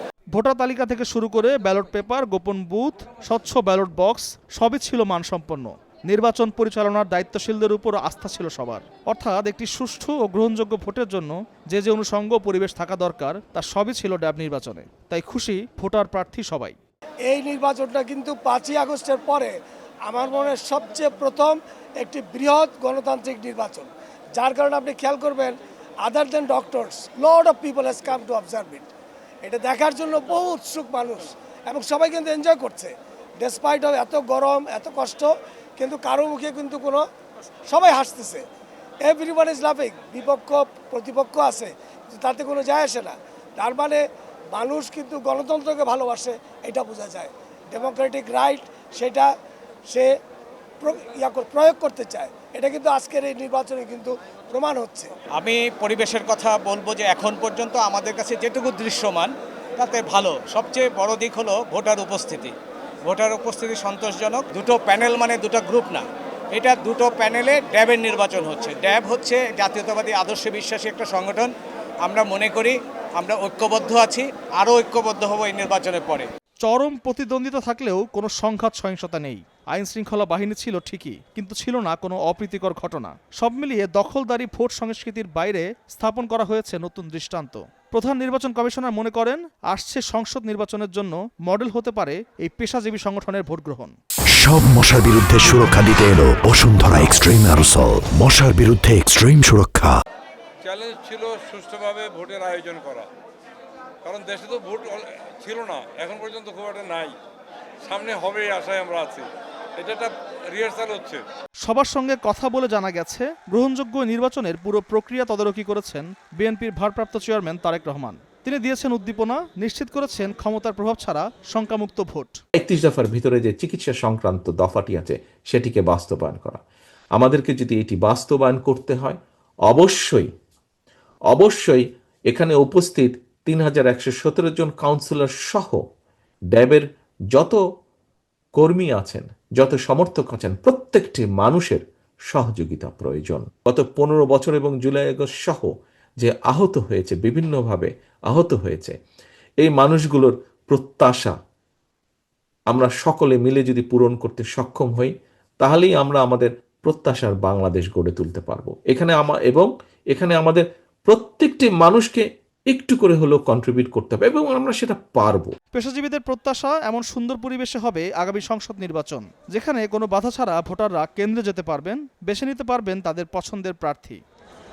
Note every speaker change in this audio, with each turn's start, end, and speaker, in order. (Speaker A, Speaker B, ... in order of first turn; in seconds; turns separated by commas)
Speaker A: 0.3-16.8, Speaker B: 17.2-28.9, Speaker B: 29.4-37.0, Speaker B: 37.7-38.4, Speaker B: 39.0-44.0, Speaker B: 44.5-49.3, Speaker B: 50.8-55.1, Speaker C: 55.4-62.5, Speaker C: 63.1-71.5, Speaker C: 72.0-76.3, Speaker A: 76.6-94.0, Speaker D: 94.4-99.9, Speaker E: 100.6-103.1, Speaker E: 104.0-107.1, Speaker E: 107.8-111.2, Speaker A: 111.6-122.4, Speaker F: 122.6-126.6, Speaker F: 127.2-130.3, Speaker F: 131.3-135.8, Speaker F: 136.5-137.6, Speaker F: 138.6-148.9, Speaker F: 149.6-151.3, Speaker F: 152.7-165.5, Speaker A: 165.7-174.2